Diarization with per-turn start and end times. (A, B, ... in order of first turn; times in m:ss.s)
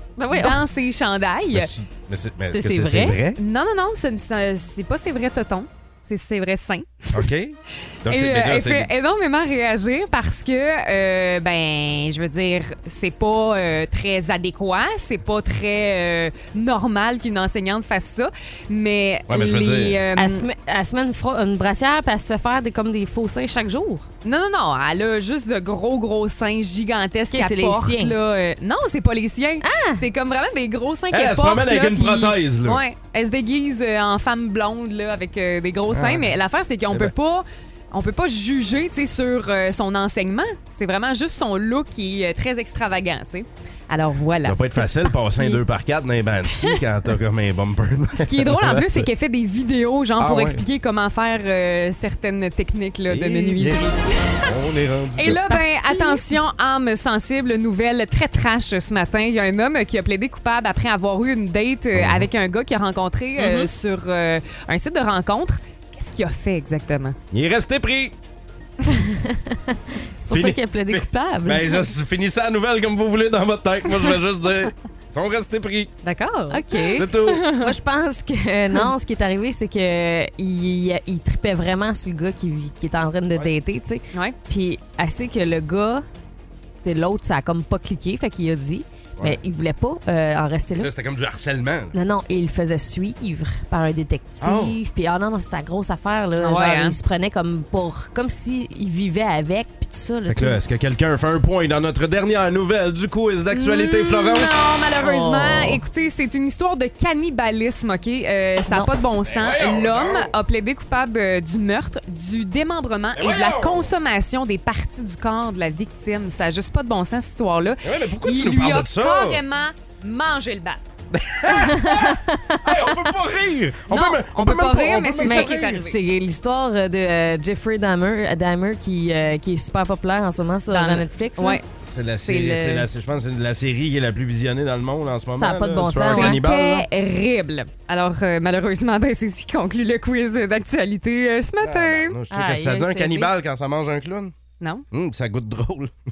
0:00.2-0:00.6 A
0:00.3-0:01.7 B
0:01.5-0:03.4 C
0:02.5-0:03.2 A
0:03.3-0:07.2 B
0:07.1-0:08.9 C
0:08.0-0:20.4 B
0:19.3-0:20.0 C
0:20.2-0:24.1 A
0:24.2-0:45.6 B
0:27.3-0:28.2 A
0:29.6-0:30.0 A
0:31.1-0:32.8 C
0:35.9-0:36.3 C
0:44.4-0:49.1 C
0:46.5-0:46.8 B
0:48.2-0:53.9 B
0:50.2-0:50.6 C
0:53.1-0:55.5 C
0:55.2-1:07.2 B
0:55.5-0:56.2 A
1:02.0-1:02.3 C
1:03.4-1:03.7 A
1:07.3-1:08.1 C
1:08.9-1:11.8 A
1:10.3-1:15.9 C
1:16.0-1:17.7 B
1:16.5-1:26.0 A
1:17.0-1:17.5 C
1:26.8-1:30.9 A
1:30.8-1:31.9 C
1:31.9-1:40.6 A
1:34.4-1:34.7 C
1:36.4-1:37.0 B
1:40.3-1:44.7 C
1:43.5-2:00.9 B
1:45.0-1:45.8 A
1:48.7-1:50.3 C
1:53.2-1:53.9 C
1:57.8-1:59.4 C
2:01.1-2:05.8 C
2:01.5-2:02.6 A
2:03.9-2:06.0 B
2:05.2-2:11.6 A
2:10.7-2:11.6 B
2:11.8-2:16.8 C
2:12.2-2:12.9 B
2:15.3-2:16.4 A
2:16.1-2:22.2 B
2:21.6-2:24.3 C
2:22.3-2:23.3 A
2:24.9-2:25.9 C